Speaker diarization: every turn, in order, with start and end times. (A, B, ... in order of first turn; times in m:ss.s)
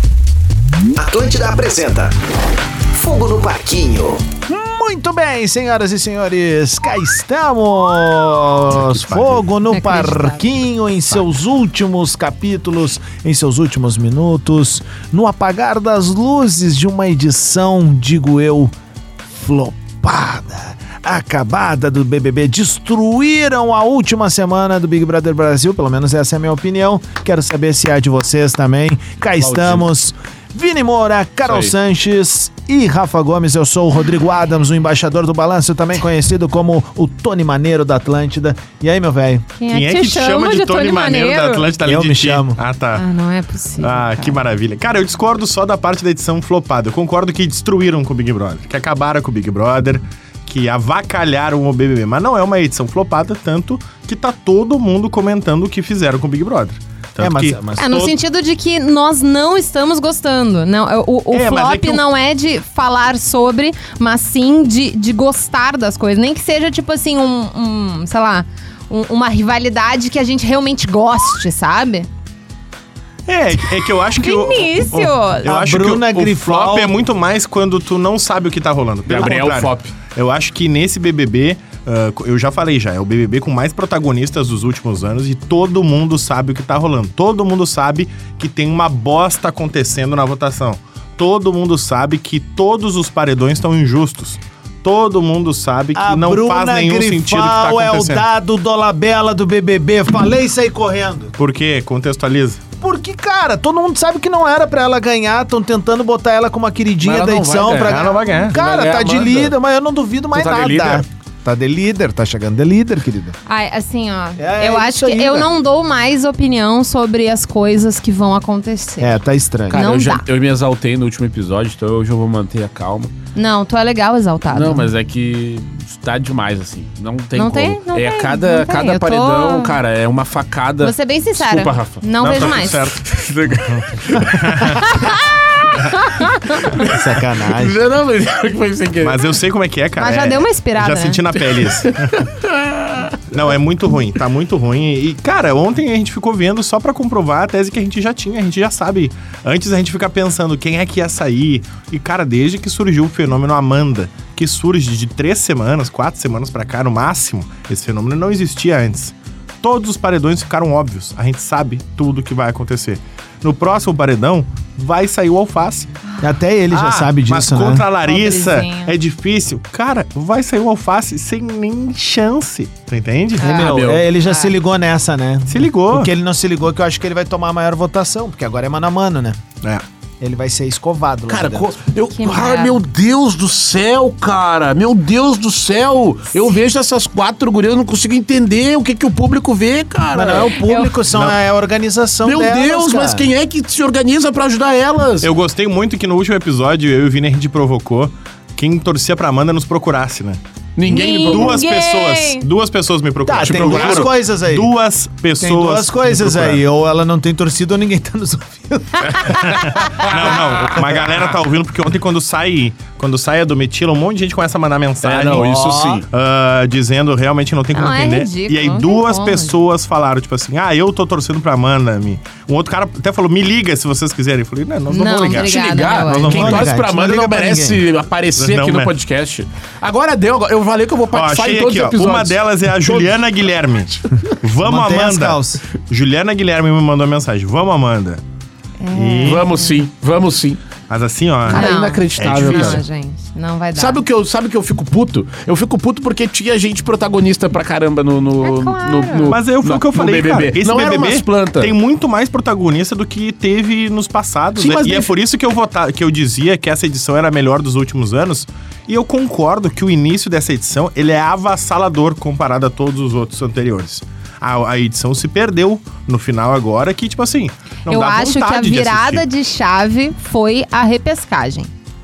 0:01.0-0:02.1 A
0:02.9-0:04.2 A
0:04.5-0:18.7 B
0:08.9-0:09.4 C
0:09.7-0:10.4 D
0:19.3-0:39.5 B
0:29.4-0:29.8 E
0:31.4-0:31.7 E
0:39.6-0:41.6 D
0:39.7-0:43.0 C
0:41.8-0:42.6 B
0:42.9-0:44.4 D
0:43.8-0:58.1 C
0:57.2-0:58.1 B
0:57.8-1:12.1 D
1:01.3-1:02.0 C
1:13.3-1:38.2 C
1:14.1-1:15.4 D
1:15.4-1:16.9 B
1:19.1-1:19.9 E
1:35.9-1:41.4 B
1:41.4-1:42.6 C
1:42.8-1:53.3 B
1:47.0-1:49.5 E
1:47.8-1:48.6 C
1:50.3-1:51.0 E
1:53.4-1:59.2 D
1:54.4-1:55.5 B
1:59.0-1:59.8 B
1:59.7-2:03.1 E
1:59.7-2:00.2 D
2:03.3-2:04.9 D
2:04.5-2:19.3 E
2:07.3-2:09.8 D
2:10.8-2:12.9 D
2:12.2-2:13.0 C
2:13.7-2:14.9 C
2:14.8-2:15.1 D
2:16.8-2:17.8 B
2:19.0-2:22.3 C
2:20.0-2:21.2 D
2:21.4-2:23.2 E
2:23.3-2:45.9 C
2:46.2-2:47.9 B
2:46.7-2:53.5 C
2:48.0-2:48.9 D
2:53.4-2:54.5 D
2:53.4-2:59.4 B
2:53.4-2:54.1 E
2:55.5-2:56.1 C
3:00.2-3:01.7 B
3:01.3-3:10.6 E
3:02.1-3:02.8 D
3:10.1-3:13.3 B
3:10.5-3:11.0 D
3:12.2-3:15.3 E
3:15.2-3:20.4 C
3:20.8-3:21.6 E
3:20.8-3:22.5 D
3:21.2-3:26.6 C
3:23.2-3:24.7 B
3:23.4-3:24.0 E
3:25.4-3:31.0 B
3:29.2-3:29.8 D
3:29.2-3:46.7 C
3:35.0-3:36.1 E
3:35.4-3:36.0 B
3:37.7-3:39.6 D
3:44.9-3:46.3 D
3:45.3-3:53.2 E
3:46.3-3:47.8 B
3:48.4-3:48.9 C
3:51.1-3:58.2 C
3:54.6-3:55.6 B
3:58.8-3:59.8 D
3:58.9-3:59.4 C
3:59.2-4:00.6 E
4:00.9-4:02.8 C
4:01.4-4:02.8 E
4:01.5-4:04.0 D
4:03.7-4:11.7 E
4:08.4-4:09.3 D
4:09.3-4:29.2 C
4:14.6-4:15.1 E
4:27.9-4:31.7 D